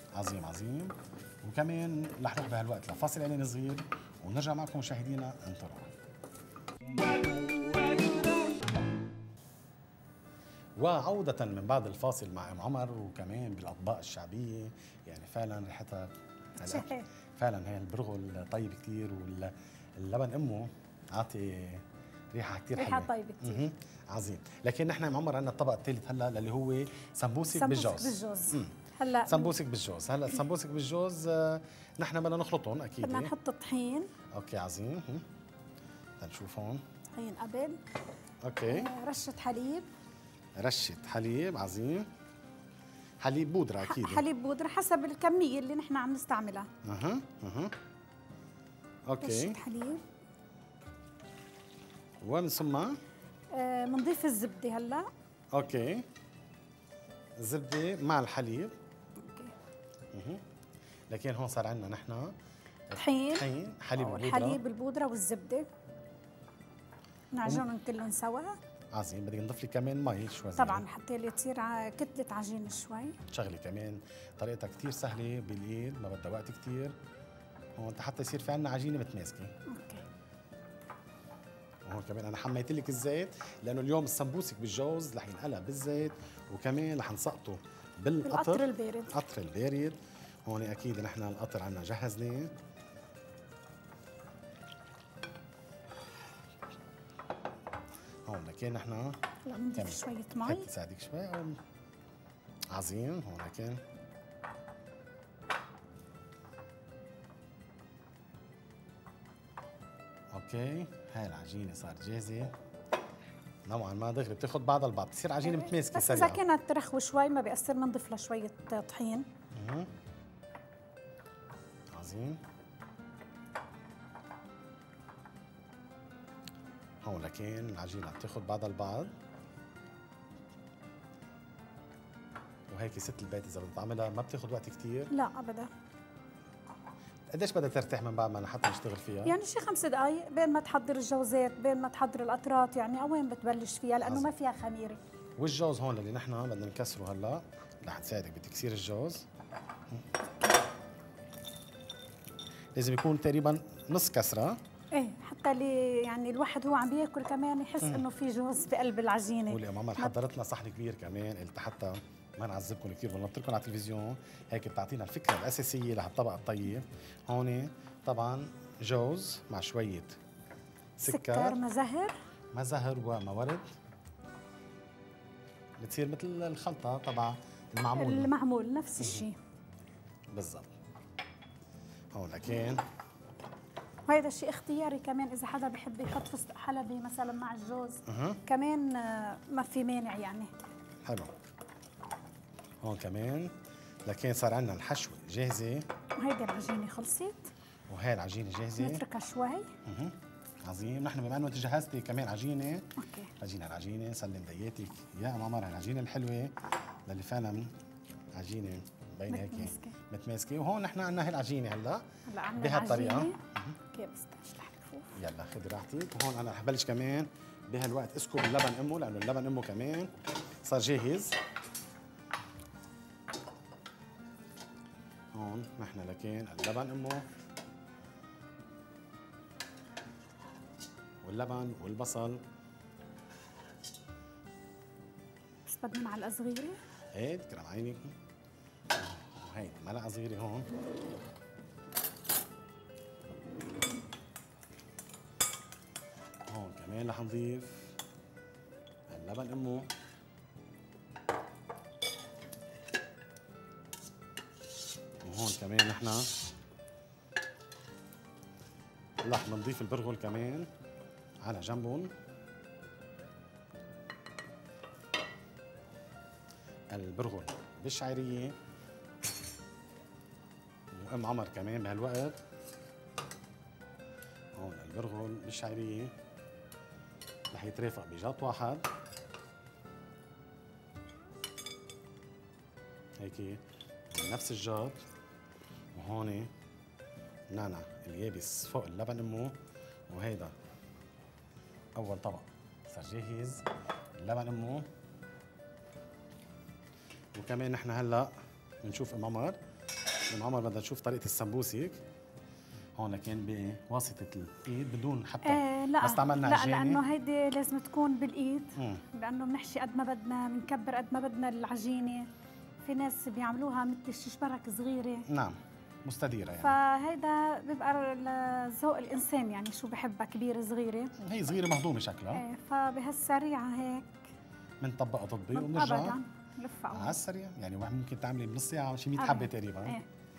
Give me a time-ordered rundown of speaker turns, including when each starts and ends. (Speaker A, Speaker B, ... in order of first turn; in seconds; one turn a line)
Speaker A: 0.2-5.9
Speaker A: 10.8-28.7
Speaker B: 16.6-17.1
Speaker B: 22.8-23.6
Speaker B: 27.5-29.6
Speaker A: 29.3-33.3
Speaker B: 33.0-34.1
Speaker A: 34.3-35.2
Speaker A: 36.2-36.8
Speaker B: 37.1-37.8
Speaker A: 38.4-38.9
Speaker B: 38.7-39.9
Speaker A: 40.6-42.1
Speaker A: 43.2-44.2
Speaker B: 43.9-46.7
Speaker A: 46.9-47.7
Speaker A: 49.1-49.6
Speaker B: 49.2-50.0
Speaker A: 52.2-53.0
Speaker B: 53.5-55.1
Speaker A: 55.5-56.0
Speaker A: 57.4-58.8
Speaker B: 59.2-59.5
Speaker A: 60.1-60.4
Speaker A: 61.1-62.3
Speaker B: 62.9-65.7
Speaker A: 63.4-64.6
Speaker B: 67.3-68.6
Speaker A: 68.9-70.9
Speaker B: 70.6-73.2
Speaker A: 73.3-77.0
Speaker A: 77.8-79.5
Speaker B: 79.7-80.0
Speaker A: 81.9-92.5
Speaker B: 88.2-89.2
Speaker A: 98.3-99.2
Speaker B: 99.5-100.7
Speaker A: 99.8-101.6
Speaker A: 102.7-103.8
Speaker A: 110.3-112.5
Speaker A: 113.7-116.4
Speaker B: 115.5-119.3
Speaker A: 119.5-119.9
Speaker A: 121.9-122.4
Speaker A: 127.0-129.1
Speaker A: 132.7-135.1
Speaker B: 135.1-135.7
Speaker A: 137.3-139.4
Speaker B: 139.2-145.0
Speaker A: 144.0-144.3
Speaker A: 145.4-149.3
Speaker A: 152.8-154.6
Speaker B: 154.9-160.1
Speaker A: 159.5-170.2
Speaker A: 171.0-171.6
Speaker B: 171.1-172.2
Speaker A: 172.5-173.7
Speaker A: 175.8-178.3
Speaker B: 178.0-179.4
Speaker A: 179.0-179.3
Speaker A: 180.3-180.7
Speaker A: 182.1-182.8
Speaker B: 184.1-190.5
Speaker A: 188.1-188.4
Speaker A: 191.1-191.3
Speaker A: 192.8-193.5
Speaker A: 194.1-195.9
Speaker B: 196.2-197.5
Speaker A: 197.9-199.1
Speaker B: 198.8-199.7
Speaker A: 199.8-200.2
Speaker A: 200.7-202.9
Speaker B: 203.0-203.3
Speaker A: 203.4-206.5
Speaker A: 207.1-207.7
Speaker A: 208.4-212.1
Speaker B: 209.3-210.0
Speaker B: 212.3-213.4
Speaker A: 212.6-213.7
Speaker B: 213.9-215.1
Speaker A: 215.2-220.1
Speaker A: 220.6-221.4
Speaker A: 225.3-227.2
Speaker A: 231.2-232.4
Speaker B: 235.7-236.8
Speaker A: 237.2-238.1
Speaker A: 239.0-240.7
Speaker A: 246.5-247.9
Speaker A: 249.1-249.9
Speaker A: 255.2-256.3
Speaker A: 259.2-260.7
Speaker A: 261.4-262.1
Speaker A: 266.9-268.6
Speaker A: 270.9-272.4
Speaker A: 274.6-276.1
Speaker A: 277.5-278.9
Speaker A: 283.2-283.6
Speaker A: 284.1-285.1
Speaker A: 286.0-286.5
Speaker A: 287.5-289.6
Speaker A: 290.1-290.5
Speaker A: 292.0-293.7
Speaker A: 294.2-294.9
Speaker A: 297.4-298.3
Speaker A: 298.8-299.6
Speaker A: 300.3-302.0
Speaker A: 303.0-307.0
Speaker B: 305.5-312.3
Speaker A: 308.8-309.0
Speaker B: 312.8-315.3
Speaker A: 315.3-316.8
Speaker B: 316.6-321.1
Speaker A: 321.2-322.4
Speaker B: 322.3-324.2
Speaker A: 324.8-326.2
Speaker B: 325.5-327.2
Speaker A: 326.9-330.0
Speaker B: 329.2-330.1